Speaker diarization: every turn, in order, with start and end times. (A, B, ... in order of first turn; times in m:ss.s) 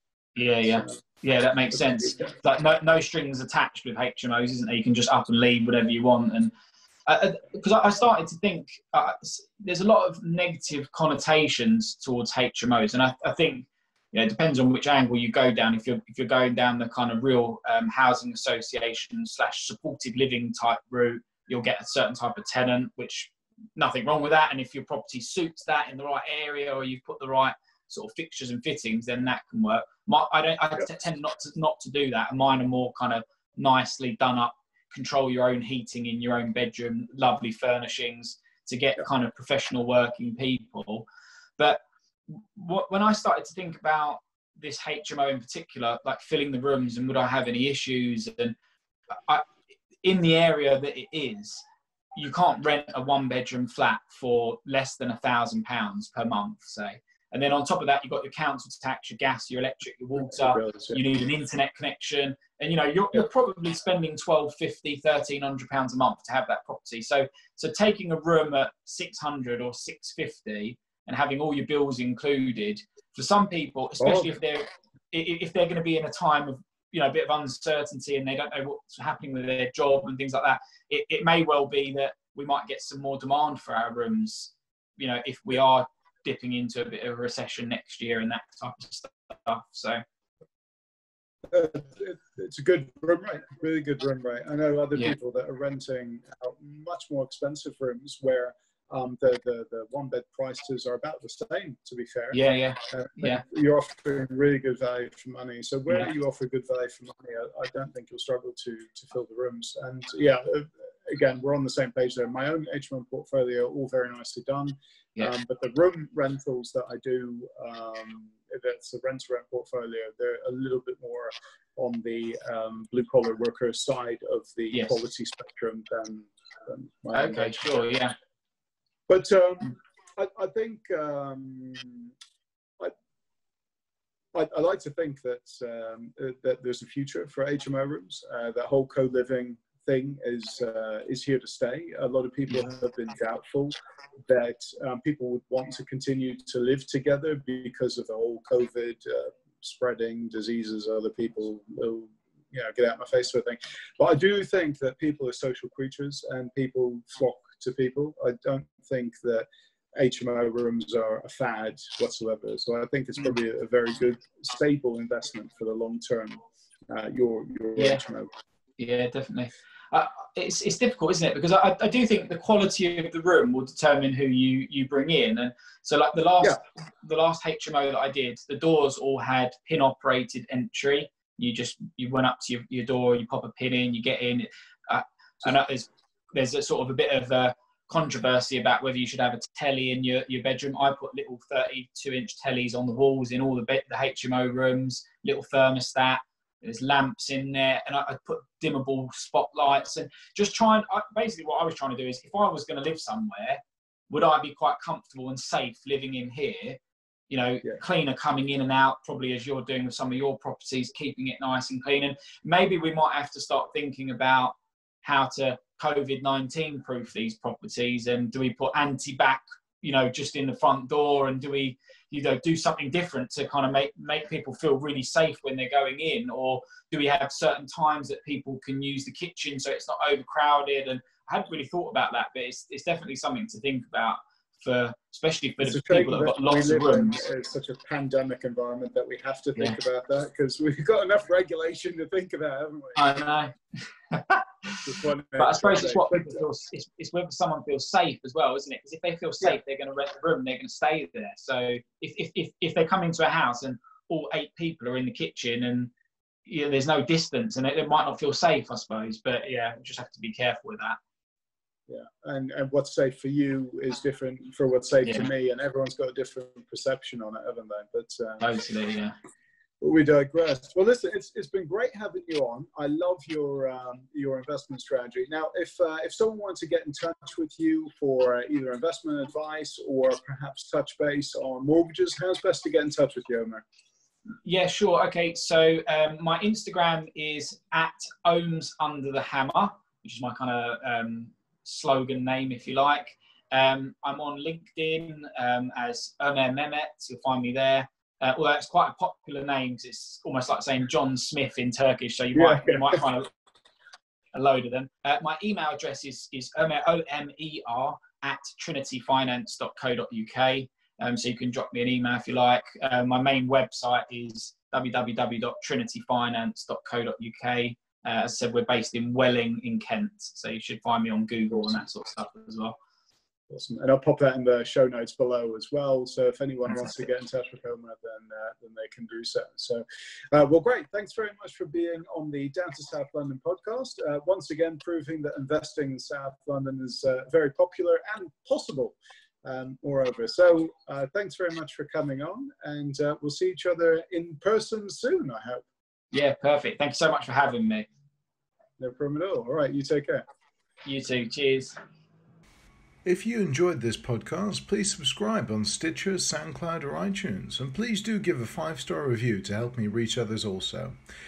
0:00.4-0:06.5 A
0:00.7-0:00.9 B
0:01.7-0:02.3 B
0:07.1-0:41.0 A
0:41.6-0:48.6 A
0:49.1-0:49.5 A
0:50.0-0:51.6 A
0:52.1-1:30.0 A
1:00.3-1:01.0 B
1:14.0-1:14.3 B
1:31.5-2:07.6 B
1:42.3-1:43.4 A
2:04.7-2:05.0 A
2:07.1-2:08.1 A
2:09.1-2:12.1 B
2:14.3-2:48.3 B
2:47.8-2:48.0 A
2:48.8-3:57.2 A
3:55.6-4:03.0 B
4:03.0-4:04.8 A
4:04.8-4:06.4 B
4:05.4-4:15.9 A
4:16.4-4:21.0 A
4:21.9-4:28.5 B
4:28.4-4:29.1 A
4:29.8-4:43.6 B
4:44.4-5:03.3 A
5:02.3-5:03.0 B
5:04.3-5:22.8 A
5:23.5-5:45.6 B
5:46.1-5:47.9 A
5:48.8-5:50.2 B
5:50.8-5:51.8 A
5:53.0-6:01.0 C